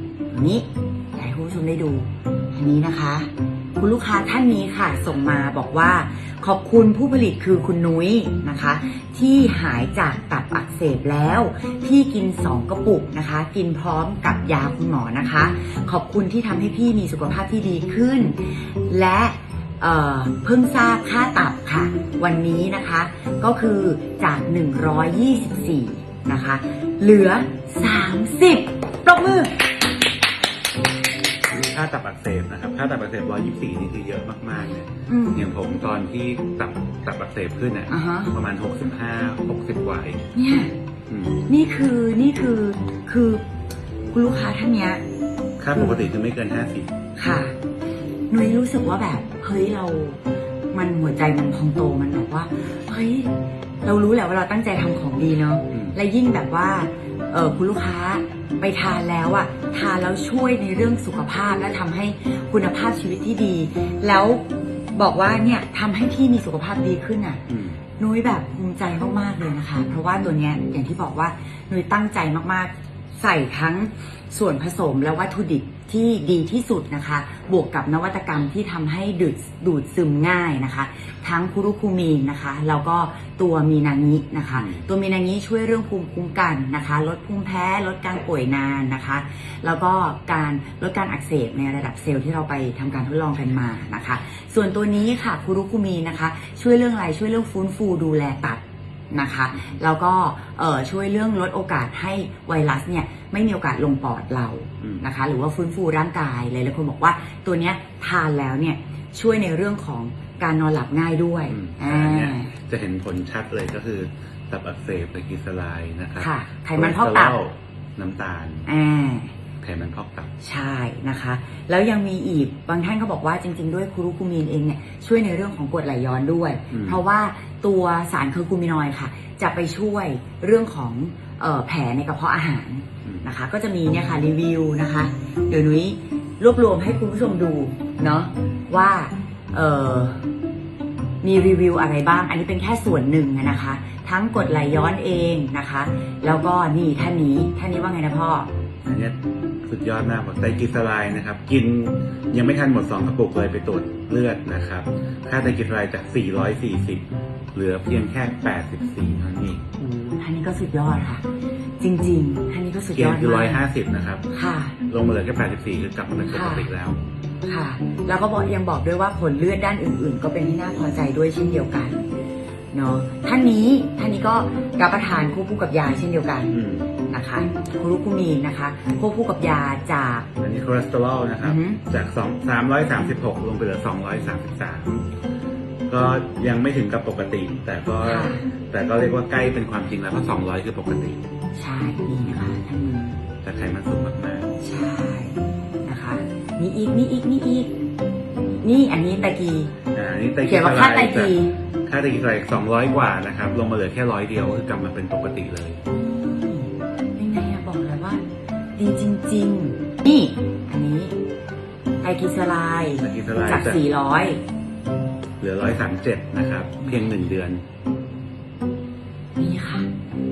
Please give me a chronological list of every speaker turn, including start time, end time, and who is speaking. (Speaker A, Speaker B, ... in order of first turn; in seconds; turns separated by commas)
Speaker A: 0.3-29.6, Speaker B: 31.5-40.2, Speaker A: 35.1-35.5, Speaker A: 37.9-38.3, Speaker A: 40.3-40.7, Speaker B: 41.1-41.4, Speaker A: 41.5-43.4, Speaker A: 44.1-45.0, Speaker B: 45.6-46.9, Speaker A: 45.7-46.0, Speaker A: 47.2-47.5, Speaker A: 48.3-50.2, Speaker A: 50.7-67.4, Speaker B: 67.5-67.8, Speaker A: 68.0-112.5, Speaker B: 84.5-84.8, Speaker B: 111.5-118.7, Speaker A: 116.2-117.3, Speaker A: 118.7-119.3, Speaker B: 119.6-120.3, Speaker A: 120.4-140.3, Speaker B: 126.7-127.0, Speaker A: 141.2-148.5, Speaker B: 148.8-159.6, Speaker A: 159.8-161.2, Speaker A: 161.8-163.6, Speaker B: 162.9-164.3, Speaker A: 164.3-164.8, Speaker B: 164.9-167.0, Speaker A: 166.3-166.7, Speaker A: 167.4-172.1, Speaker A: 172.7-176.6, Speaker B: 176.5-176.9, Speaker A: 177.1-180.3, Speaker B: 180.4-185.1, Speaker A: 181.4-181.8, Speaker B: 185.9-191.2, Speaker A: 188.0-188.5, Speaker A: 191.5-193.2, Speaker B: 193.4-194.6, Speaker A: 194.6-197.7, Speaker A: 198.6-199.7, Speaker B: 199.9-201.3, Speaker A: 200.4-201.5, Speaker B: 201.8-205.8, Speaker A: 205.9-208.2, Speaker A: 208.8-211.2, Speaker A: 212.0-214.4, Speaker B: 213.0-213.8, Speaker B: 215.4-217.6, Speaker A: 216.8-217.1, Speaker A: 219.4-219.9